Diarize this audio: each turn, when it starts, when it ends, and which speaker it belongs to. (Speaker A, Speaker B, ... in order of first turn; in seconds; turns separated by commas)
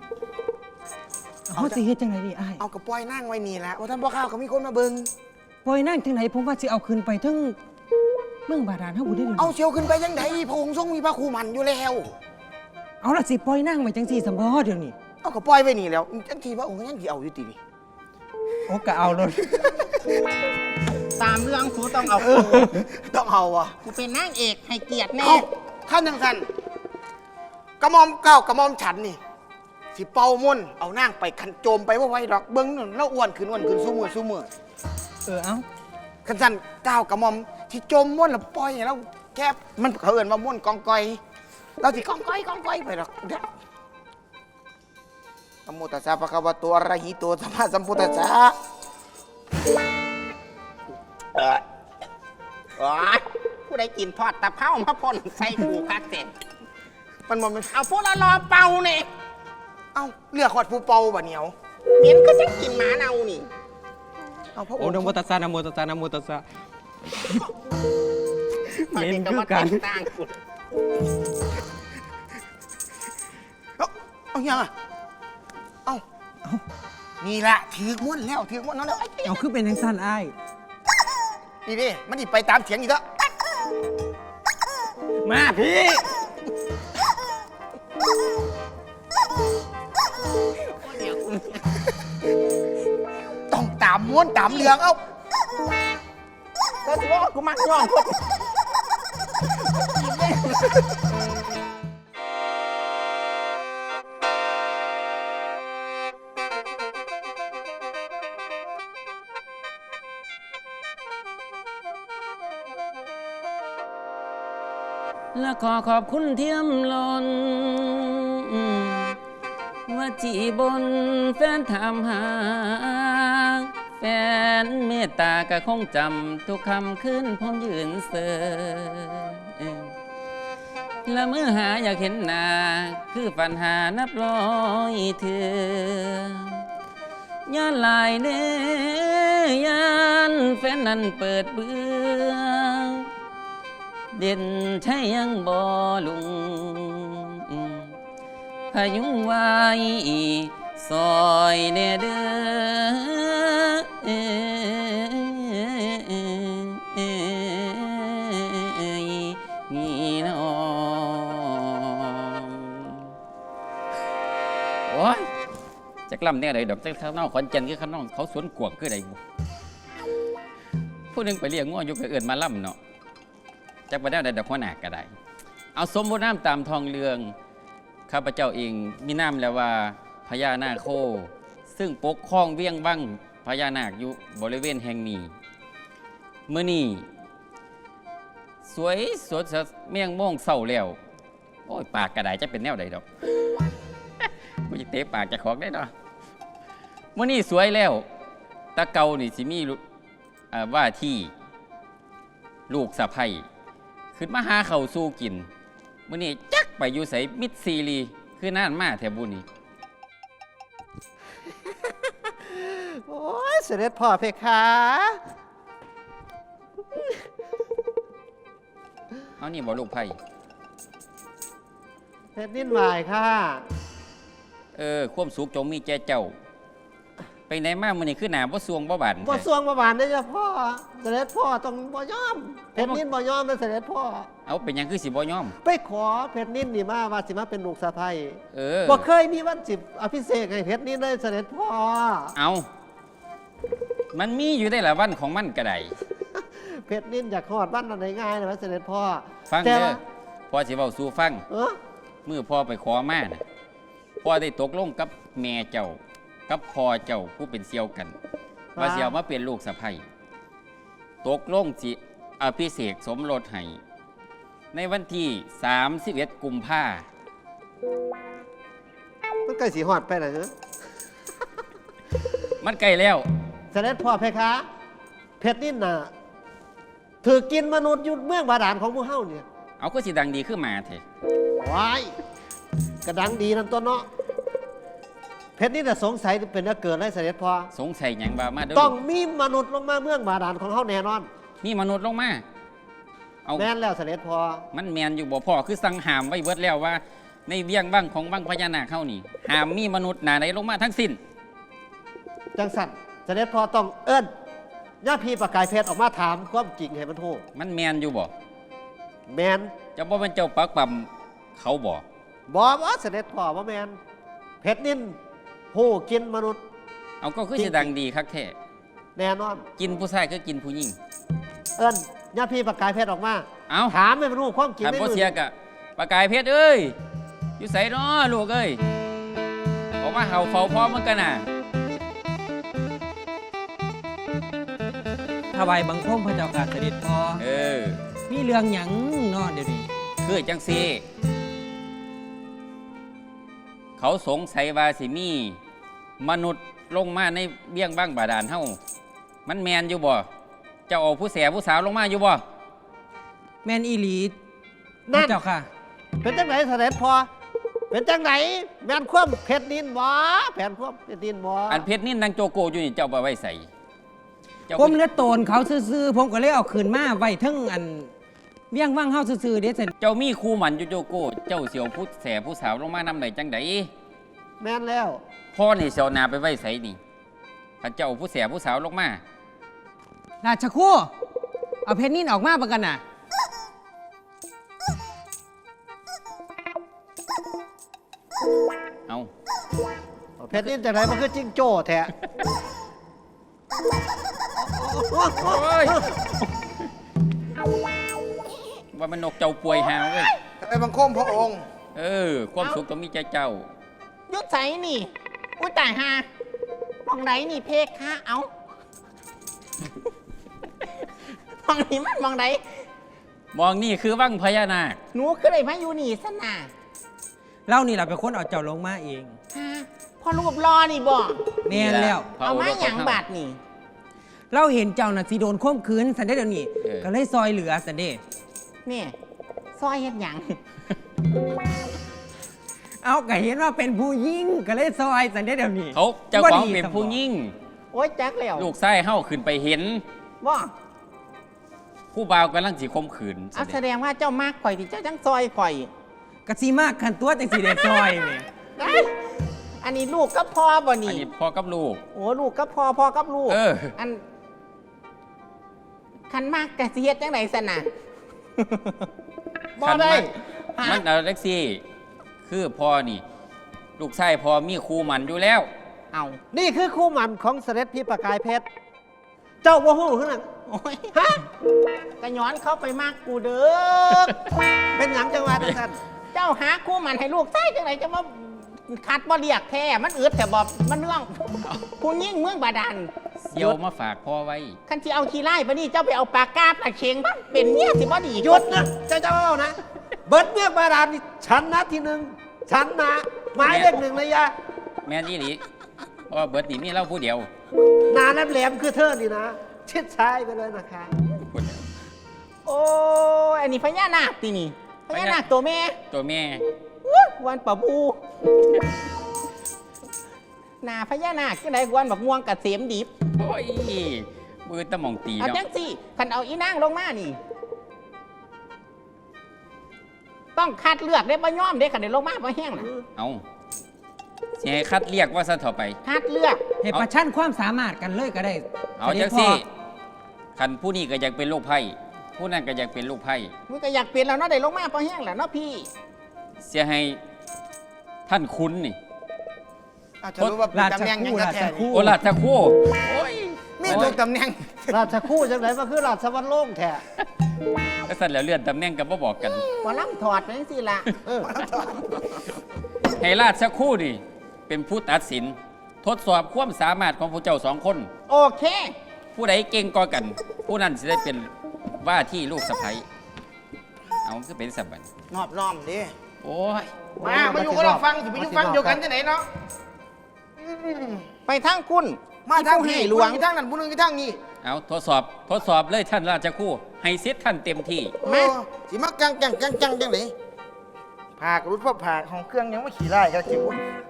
Speaker A: 1.5-2.6, Speaker B: 1.6-1.8, Speaker B: 2.6-5.1, Speaker A: 5.6-7.6, Speaker A: 8.5-9.5, Speaker B: 9.3-12.2, Speaker A: 13.0-14.9, Speaker B: 15.2-17.6, Speaker A: 18.7-19.8, Speaker C: 21.2-22.8, Speaker B: 22.2-23.8, Speaker C: 23.8-25.5, Speaker B: 25.2-26.5, Speaker B: 27.8-29.2, Speaker B: 29.9-34.5, Speaker A: 35.3-35.6, Speaker B: 36.2-41.2, Speaker B: 41.8-43.5, Speaker B: 45.7-48.5, Speaker C: 51.4-51.6, Speaker C: 52.8-56.3, Speaker B: 57.3-57.7, Speaker C: 57.7-59.1, Speaker B: 59.9-61.5, Speaker C: 62.0-63.5, Speaker B: 64.6-65.2, Speaker A: 64.8-66.4, Speaker A: 68.7-69.8, Speaker C: 68.9-70.4, Speaker B: 73.8-74.7, Speaker B: 77.2-79.4, Speaker A: 79.2-80.3, Speaker B: 81.7-83.0, Speaker A: 85.2-86.1, Speaker C: 90.6-91.8, Speaker B: 93.5-95.0, Speaker C: 96.8-98.4, Speaker C: 100.0-100.8, Speaker D: 115.3-119.2, Speaker D: 119.9-129.9, Speaker D: 131.1-136.6, Speaker D: 137.5-143.1, Speaker D: 144.1-147.9, Speaker D: 148.7-163.1, Speaker D: 164.9-165.3, Speaker D: 166.1-169.2, Speaker D: 171.1-172.8, Speaker D: 173.9-175.1, Speaker D: 175.8-177.3, Speaker D: 178.1-185.3, Speaker D: 186.5-187.1, Speaker D: 188.6-191.0, Speaker D: 191.7-193.6, Speaker D: 194.7-195.9, Speaker D: 197.2-198.1, Speaker D: 198.8-199.8, Speaker D: 200.5-201.3, Speaker D: 202.7-203.4, Speaker D: 204.2-205.5, Speaker D: 206.1-209.4, Speaker E: 212.3-215.2, Speaker D: 219.4-220.2, Speaker E: 222.3-223.6, Speaker D: 224.8-226.3, Speaker D: 227.5-229.5, Speaker E: 229.2-234.3, Speaker D: 232.8-233.0, Speaker D: 234.5-235.6, Speaker E: 235.6-242.3, Speaker D: 238.5-239.1, Speaker D: 242.4-242.7, Speaker D: 244.1-245.9, Speaker E: 246.4-250.0, Speaker D: 249.5-251.4, Speaker E: 251.5-251.8, Speaker D: 252.3-253.4, Speaker D: 254.2-258.1, Speaker E: 258.8-259.1, Speaker D: 258.8-260.0, Speaker D: 261.2-263.8, Speaker D: 264.7-267.1, Speaker E: 269.5-270.5, Speaker D: 272.6-273.3, Speaker E: 273.7-274.7, Speaker E: 275.4-276.1, Speaker E: 277.2-279.4, Speaker D: 279.8-281.0, Speaker E: 281.6-282.1, Speaker E: 283.1-284.1, Speaker E: 285.6-287.7, Speaker D: 287.7-289.0, Speaker E: 288.7-291.3, Speaker D: 291.6-292.4, Speaker E: 293.6-294.6, Speaker D: 294.7-301.2, Speaker E: 302.6-304.3, Speaker E: 305.0-307.4, Speaker D: 307.6-308.3, Speaker E: 309.3-309.7, Speaker D: 310.0-312.1, Speaker E: 312.5-314.0, Speaker E: 314.6-315.2, Speaker E: 315.7-316.6, Speaker D: 317.2-318.5, Speaker E: 317.6-317.9, Speaker E: 319.2-319.6, Speaker D: 319.8-321.0, Speaker E: 321.8-325.3, Speaker D: 323.7-324.0, Speaker D: 324.8-326.9, Speaker D: 327.6-328.8, Speaker D: 330.0-331.5, Speaker A: 335.5-337.4, Speaker D: 337.4-338.0, Speaker A: 338.3-339.9, Speaker D: 340.2-341.0, Speaker D: 344.0-345.6, Speaker D: 346.2-348.8, Speaker D: 349.5-350.3, Speaker D: 350.9-352.4, Speaker A: 353.6-354.4, Speaker E: 355.1-355.4, Speaker A: 355.1-355.7, Speaker E: 356.2-357.3, Speaker E: 357.9-361.9, Speaker D: 361.7-363.7, Speaker D: 364.7-365.0, Speaker A: 364.7-368.1, Speaker A: 368.7-369.9, Speaker D: 370.0-373.9, Speaker E: 374.6-375.2, Speaker D: 375.5-377.0, Speaker D: 377.8-379.2, Speaker A: 380.4-381.1, Speaker A: 381.9-383.0, Speaker E: 390.4-392.1, Speaker E: 394.6-396.1, Speaker D: 395.4-396.4, Speaker D: 398.9-400.3, Speaker B: 400.6-401.6, Speaker D: 401.9-403.7, Speaker C: 404.3-406.3, Speaker C: 407.1-408.5, Speaker C: 411.6-412.8, Speaker D: 413.5-415.0, Speaker C: 415.1-416.7, Speaker A: 417.7-419.4, Speaker C: 419.5-421.6, Speaker A: 421.7-422.3, Speaker D: 421.7-423.2, Speaker C: 422.4-423.6, Speaker A: 424.5-428.2, Speaker D: 426.8-427.1, Speaker C: 428.9-429.1, Speaker C: 429.8-430.6, Speaker A: 433.0-437.2, Speaker D: 435.9-437.5, Speaker C: 437.9-438.7, Speaker D: 438.6-440.0, Speaker C: 440.4-440.7, Speaker D: 442.1-443.8, Speaker C: 443.6-445.9, Speaker A: 446.5-448.5, Speaker C: 448.8-449.1, Speaker C: 449.8-451.3, Speaker D: 451.1-452.0, Speaker C: 452.1-454.2, Speaker D: 453.5-454.0, Speaker C: 456.3-457.9, Speaker C: 458.6-459.1, Speaker D: 459.8-460.3, Speaker C: 459.8-461.0, Speaker E: 459.9-460.2, Speaker D: 460.8-461.8, Speaker D: 462.5-463.2, Speaker D: 464.0-465.7, Speaker C: 466.1-466.4, Speaker E: 466.5-468.7, Speaker E: 469.6-470.5, Speaker C: 470.7-471.2, Speaker E: 471.1-471.4, Speaker C: 472.2-474.4, Speaker E: 474.9-476.0, Speaker C: 476.3-483.1, Speaker D: 483.5-484.8, Speaker C: 484.9-488.8, Speaker E: 488.4-494.5, Speaker D: 493.6-493.9, Speaker D: 495.1-495.6, Speaker D: 496.3-497.5, Speaker E: 498.1-501.1, Speaker D: 501.5-501.9, Speaker C: 502.7-506.0, Speaker D: 505.1-505.4, Speaker D: 506.1-506.6, Speaker C: 507.0-508.2, Speaker C: 510.8-513.1, Speaker D: 513.4-515.6, Speaker C: 515.4-517.4, Speaker C: 520.6-522.9, Speaker D: 523.2-523.4, Speaker D: 524.6-526.0, Speaker C: 526.0-526.6, Speaker A: 526.8-529.6, Speaker D: 529.0-529.7, Speaker D: 530.6-533.5, Speaker C: 533.7-535.9, Speaker D: 536.6-537.2, Speaker D: 538.3-539.0, Speaker B: 540.2-542.0, Speaker A: 540.7-542.2, Speaker D: 541.9-544.2, Speaker B: 543.8-545.0, Speaker E: 544.9-547.0, Speaker D: 548.1-549.7, Speaker C: 549.8-551.1, Speaker B: 551.5-552.1, Speaker D: 553.2-558.1, Speaker C: 558.3-559.0, Speaker D: 559.4-561.5, Speaker D: 562.0-563.0, Speaker D: 564.2-565.1, Speaker B: 565.3-566.1, Speaker D: 566.4-566.9, Speaker E: 567.2-569.0, Speaker B: 567.2-569.5, Speaker B: 570.6-571.2, Speaker C: 571.5-573.4, Speaker B: 572.5-574.4, Speaker D: 574.6-578.1, Speaker B: 578.2-580.3, Speaker C: 578.2-578.5, Speaker B: 581.4-583.8